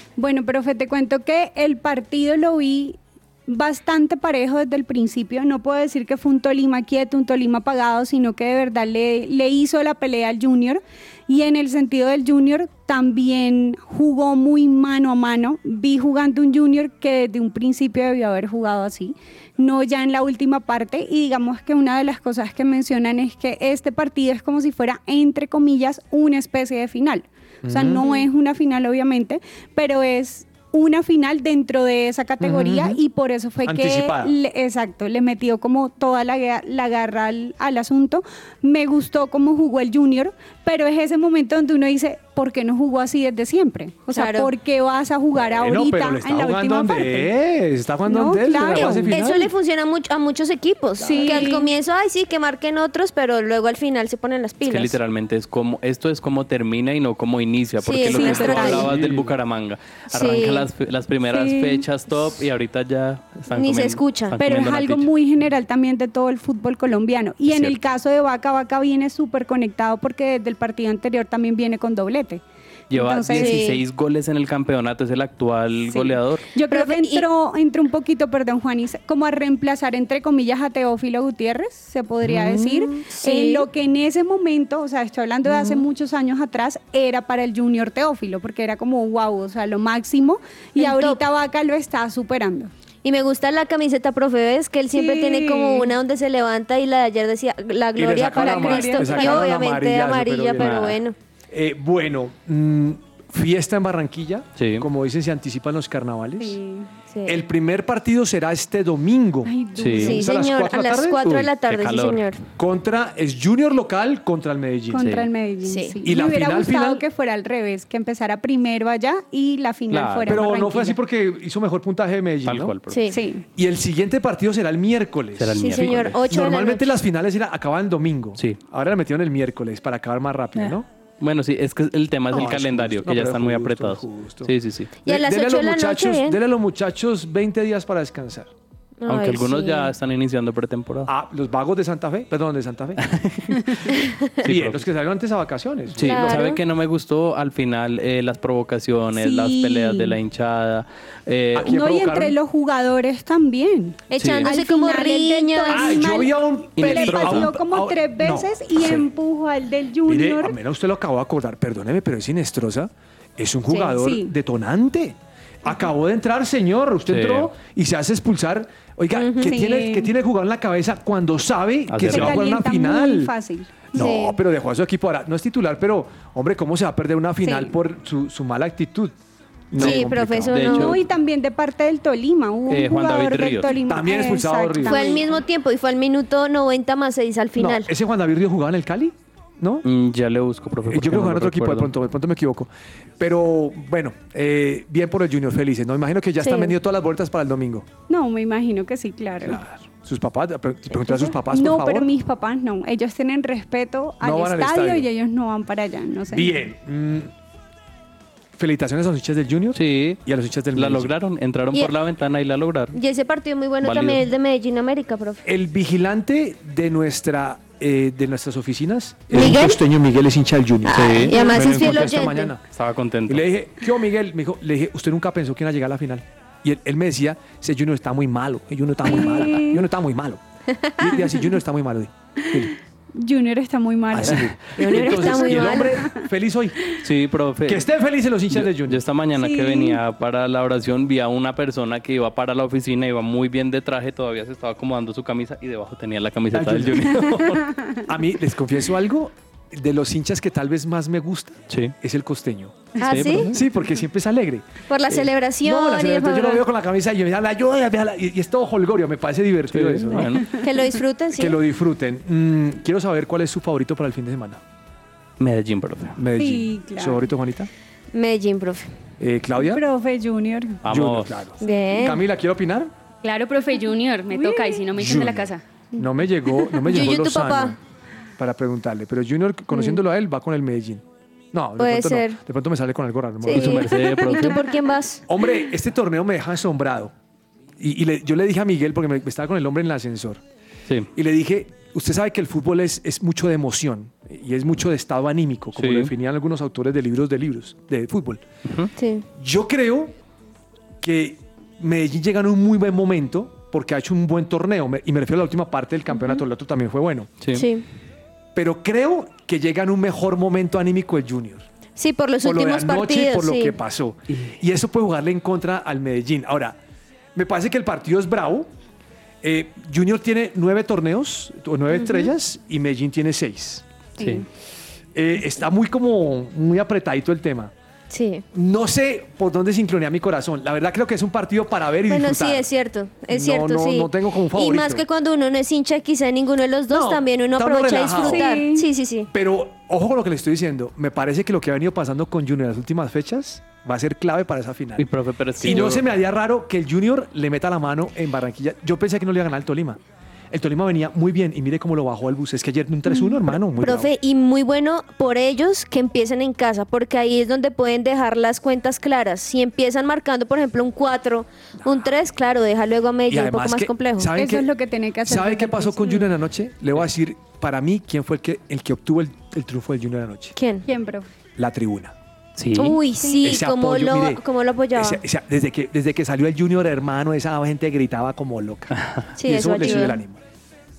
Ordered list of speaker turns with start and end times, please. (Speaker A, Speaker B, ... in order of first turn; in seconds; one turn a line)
Speaker A: 0.2-47.3
Speaker B: 27.6-28.1
Speaker B: 32.4-33.0
Speaker B: 33.6-34.3
Speaker C: 44.1-44.5
Speaker B: 45.4-49.5
Speaker A: 48.0-49.2
Speaker C: 48.7-54.9
Speaker A: 51.0-51.7
Speaker B: 51.0-51.5
Speaker D: 54.6-65.1
Speaker C: 57.8-58.9
Speaker A: 58.1-58.9
Speaker B: 58.7-59.3
Speaker C: 60.1-60.6
Speaker A: 61.3-61.8
Speaker C: 63.5-64.3
Speaker A: 64.4-73.7
Speaker D: 67.5-67.7
Speaker D: 72.9-76.5
Speaker C: 73.3-73.8
Speaker A: 76.5-92.7
Speaker C: 76.7-77.2
Speaker C: 82.5-83.7
Speaker C: 85.5-85.8
Speaker C: 90.8-91.2
Speaker C: 93.0-101.1
Speaker A: 94.9-95.9
Speaker B: 98.0-100.9
Speaker A: 98.3-99.5
Speaker D: 100.6-101.0
Speaker B: 101.5-106.6
Speaker D: 104.6-104.8
Speaker A: 106.4-106.9
Speaker C: 107.1-107.4
Speaker B: 107.2-111.3
Speaker A: 109.4-110.2
Speaker D: 109.8-110.2
Speaker C: 110.0-112.4
Speaker D: 111.2-112.2
Speaker B: 112.6-115.1
Speaker A: 114.9-121.0
Speaker D: 115.0-115.3
Speaker C: 115.6-116.0
Speaker B: 116.0-117.0
Speaker D: 119.9-120.4
Speaker B: 120.2-122.7
Speaker D: 122.4-123.0
Speaker C: 122.9-123.1
Speaker A: 123.1-123.4
Speaker B: 123.5-130.9
Speaker D: 125.4-126.2
Speaker C: 125.6-126.9
Speaker D: 130.6-134.9
Speaker B: 132.3-134.5
Speaker C: 135.0-136.4
Speaker B: 135.1-138.5
Speaker C: 139.0-139.9
Speaker D: 139.1-141.1
Speaker B: 141.1-143.6
Speaker D: 143.0-143.7
Speaker C: 143.9-144.2
Speaker B: 144.4-146.4
Speaker D: 144.4-144.8
Speaker D: 145.9-151.8
Speaker C: 146.0-146.6
Speaker A: 149.1-150.2
Speaker B: 151.5-152.3
Speaker A: 151.6-160.5
Speaker C: 154.1-156.2
Speaker D: 154.2-154.5
Speaker B: 155.7-159.0
Speaker D: 156.8-157.5
Speaker B: 160.0-173.3
Speaker A: 163.9-164.3
Speaker D: 167.1-167.5
Speaker C: 169.1-169.6
Speaker A: 169.4-170.1
Speaker D: 171.9-172.4
Speaker A: 172.1-174.0
Speaker B: 173.9-179.1
Speaker C: 173.9-174.4
Speaker A: 177.4-177.7
Speaker B: 179.7-180.6
Speaker C: 179.8-180.9
Speaker D: 179.8-181.0
Speaker A: 180.7-185.3
Speaker D: 182.7-183.7
Speaker B: 183.7-185.2
Speaker C: 184.8-187.9
Speaker B: 187.6-189.8
Speaker D: 189.8-191.9
Speaker B: 190.8-197.9
Speaker C: 196.4-196.7
Speaker A: 198.1-199.6
Speaker B: 199.4-202.1
Speaker A: 201.5-206.5
Speaker B: 204.2-205.1
Speaker B: 206.3-207.3
Speaker B: 208.6-211.1
Speaker D: 209.7-210.2
Speaker D: 210.7-212.9
Speaker C: 212.9-215.4
Speaker D: 213.8-214.2
Speaker B: 215.4-222.6
Speaker C: 219.3-219.8
Speaker C: 220.8-222.5
Speaker D: 220.9-222.1
Speaker D: 222.7-223.4
Speaker B: 223.3-230.4
Speaker A: 229.0-229.8
Speaker B: 231.0-232.7
Speaker A: 233.2-236.2
Speaker B: 234.1-236.9
Speaker C: 234.8-236.0
Speaker D: 237.0-237.8
Speaker B: 237.7-239.0
Speaker D: 238.5-247.7
Speaker A: 239.3-240.0
Speaker B: 246.5-247.3
Speaker A: 247.7-248.0
Speaker B: 248.1-253.0
Speaker D: 251.7-251.9
Speaker C: 253.0-253.5
Speaker D: 253.0-253.6
Speaker B: 253.5-260.4
Speaker C: 254.9-256.6
Speaker D: 259.7-260.5
Speaker C: 260.6-261.6
Speaker B: 261.3-264.6
Speaker D: 265.4-266.2
Speaker B: 266.1-267.7
Speaker A: 266.4-267.2
Speaker C: 268.1-268.9
Speaker B: 269.2-269.8
Speaker A: 269.6-270.8
Speaker D: 270.8-271.3
Speaker B: 270.8-272.9
Speaker C: 271.6-272.2
Speaker E: 273.2-275.6
Speaker A: 274.3-274.9
Speaker B: 274.9-277.8
Speaker C: 276.9-277.8
Speaker B: 278.4-283.9
Speaker C: 279.7-280.0
Speaker C: 281.8-282.4
Speaker C: 283.4-285.2
Speaker D: 283.5-284.6
Speaker B: 285.3-287.1
Speaker B: 287.8-290.4
Speaker B: 291.1-298.4
Speaker D: 295.8-296.1
Speaker D: 298.6-298.9
Speaker C: 298.9-299.2
Speaker B: 299.4-300.1
Speaker B: 301.0-307.3
Speaker C: 307.5-307.8
Speaker B: 308.5-311.6
Speaker C: 312.0-313.8
Speaker B: 312.4-316.8
Speaker B: 317.3-318.7
Speaker B: 319.4-323.8
Speaker C: 321.9-322.3
Speaker D: 324.2-324.4
Speaker A: 324.2-324.4
Speaker B: 325.1-327.7
Speaker C: 328.1-328.4
Speaker B: 328.5-332.7
Speaker C: 332.1-339.3
Speaker B: 333.3-335.1
Speaker B: 336.9-338.6
Speaker A: 338.2-338.9
Speaker B: 339.3-345.1
Speaker D: 345.0-346.0
Speaker B: 345.6-350.0
Speaker B: 350.5-354.1
Speaker C: 353.8-364.3
Speaker B: 361.8-362.1
Speaker B: 363.3-364.7
Speaker A: 364.3-366.3
Speaker B: 365.2-370.5
Speaker C: 370.6-370.9
Speaker A: 370.9-371.3
Speaker B: 371.6-372.1
Speaker D: 372.6-373.0
Speaker C: 372.7-375.2
Speaker B: 373.4-374.4
Speaker B: 374.9-380.4
Speaker D: 378.9-379.3
Speaker C: 379.4-380.2